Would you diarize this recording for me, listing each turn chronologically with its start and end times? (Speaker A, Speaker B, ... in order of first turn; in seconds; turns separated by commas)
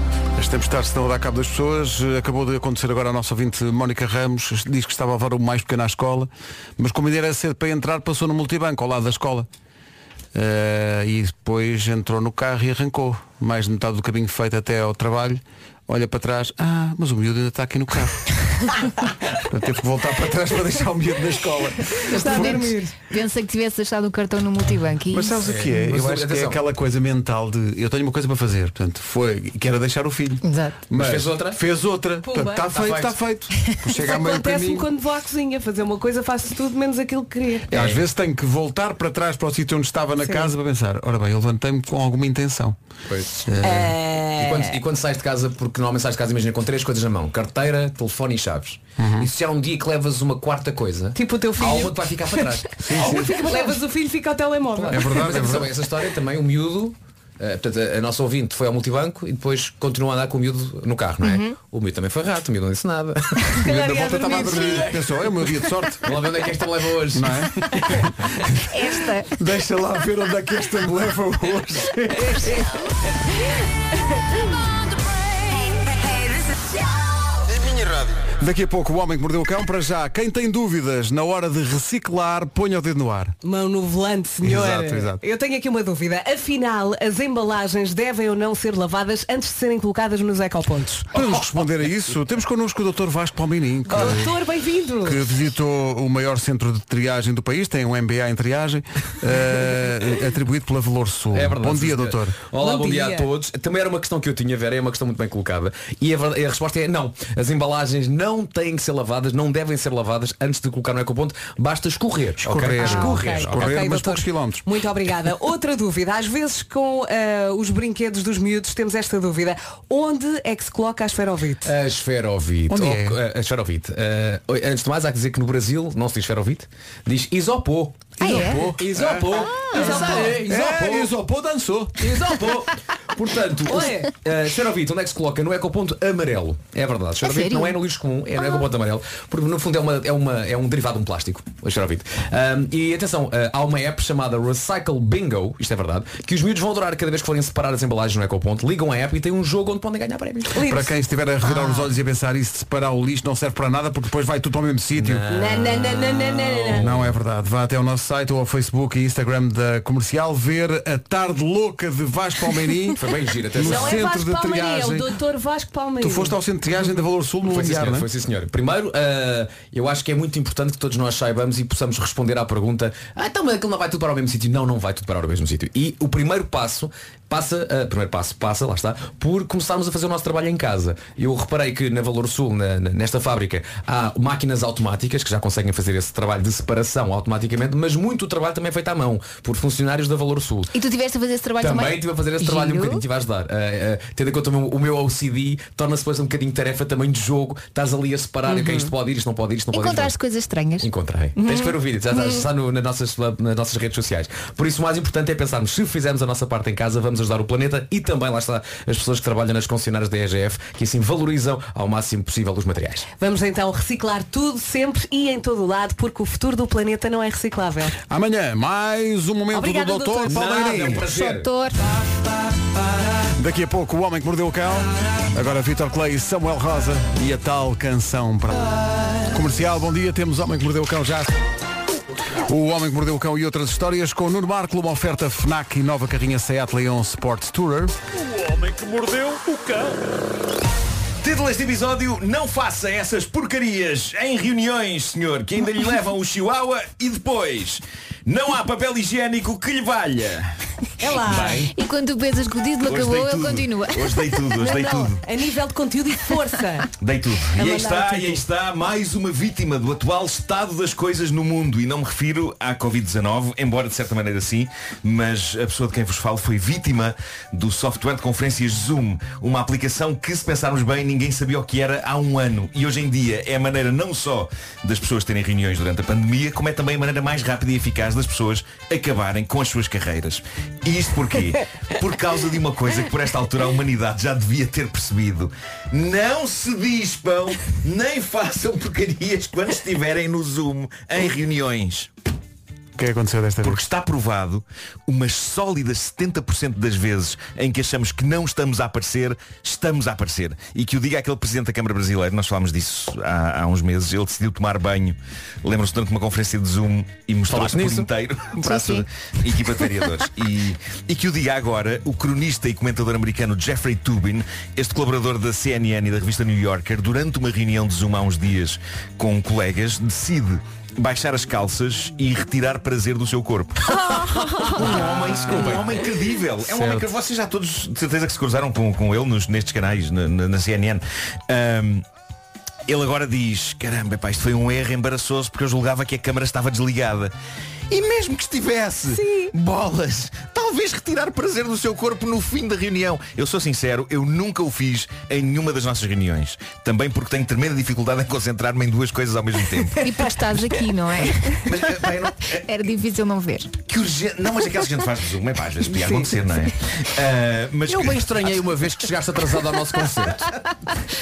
Speaker A: 0.4-9.5, Speaker A: 10.3-18.3, Speaker A: 19.4-22.8, Speaker B: 22.1-22.9, Speaker C: 22.2-25.4, Speaker A: 25.1-34.9, Speaker D: 25.4-26.6, Speaker C: 30.4-30.8, Speaker D: 30.9-31.6, Speaker B: 32.2-32.8, Speaker D: 32.7-33.2, Speaker B: 34.0-37.7, Speaker A: 37.7-42.8, Speaker D: 37.7-38.0, Speaker B: 40.2-40.5, Speaker D: 43.1-43.4, Speaker A: 43.5-44.0, Speaker B: 43.6-44.8, Speaker D: 44.3-53.2, Speaker A: 49.0-49.3, Speaker B: 51.1-55.4, Speaker A: 52.8-53.5, Speaker D: 54.8-63.7, Speaker A: 54.9-55.8, Speaker C: 61.2-61.5, Speaker B: 63.6-65.0, Speaker A: 63.6-66.1, Speaker D: 64.3-64.6, Speaker D: 66.0-67.5, Speaker A: 67.2-68.8, Speaker C: 68.7-69.3, Speaker A: 69.3-72.7, Speaker A: 78.4-83.3, Speaker B: 83.4-91.1, Speaker A: 84.4-85.2, Speaker A: 91.1-94.3, Speaker B: 93.9-95.2, Speaker A: 95.0-102.4, Speaker D: 101.3-113.9, Speaker B: 102.6-103.3, Speaker A: 112.4-114.7, Speaker B: 112.8-121.7, Speaker D: 121.6-131.1, Speaker A: 122.7-123.2, Speaker A: 128.2-132.2, Speaker C: 128.2-128.7, Speaker C: 129.6-130.1, Speaker B: 129.6-130.4, Speaker D: 132.0-150.6, Speaker B: 133.7-134.1, Speaker C: 137.2-137.8, Speaker B: 150.5-150.9, Speaker A: 150.7-155.2, Speaker D: 155.0-157.2, Speaker B: 155.3-156.9, Speaker A: 156.8-163.0, Speaker D: 163.0-164.1, Speaker A: 163.5-165.1, Speaker B: 163.6-166.3, Speaker A: 166.0-168.1, Speaker D: 167.5-190.7, Speaker C: 190.7-193.1, Speaker D: 191.6-200.1, Speaker B: 198.5-198.8, Speaker C: 199.7-200.9, Speaker D: 200.8-213.1, Speaker B: 213.2-217.9, Speaker A: 218.1-221.1, Speaker B: 219.5-220.4, Speaker D: 220.3-221.5, Speaker C: 220.9-221.8, Speaker A: 223.4-228.8, Speaker A: 229.3-231.3, Speaker A: 232.4-237.9, Speaker E: 241.2-250.5, Speaker B: 251.0-251.7, Speaker E: 251.2-251.6, Speaker D: 251.3-251.6, Speaker C: 251.7-254.7, Speaker E: 252.8-255.2, Speaker B: 254.6-256.9, Speaker E: 257.0-292.1, Speaker B: 257.6-258.4, Speaker A: 293.0-293.8, Speaker E: 293.6-332.0, Speaker D: 307.5-308.1, Speaker C: 308.6-309.1, Speaker D: 325.5-325.8, Speaker A: 326.7-327.1, Speaker E: 332.9-337.3, Speaker E: 337.9-350.1, Speaker B: 339.1-339.5, Speaker C: 350.0-353.7, Speaker E: 351.6-352.6, Speaker E: 353.9-358.6, Speaker D: 357.9-360.5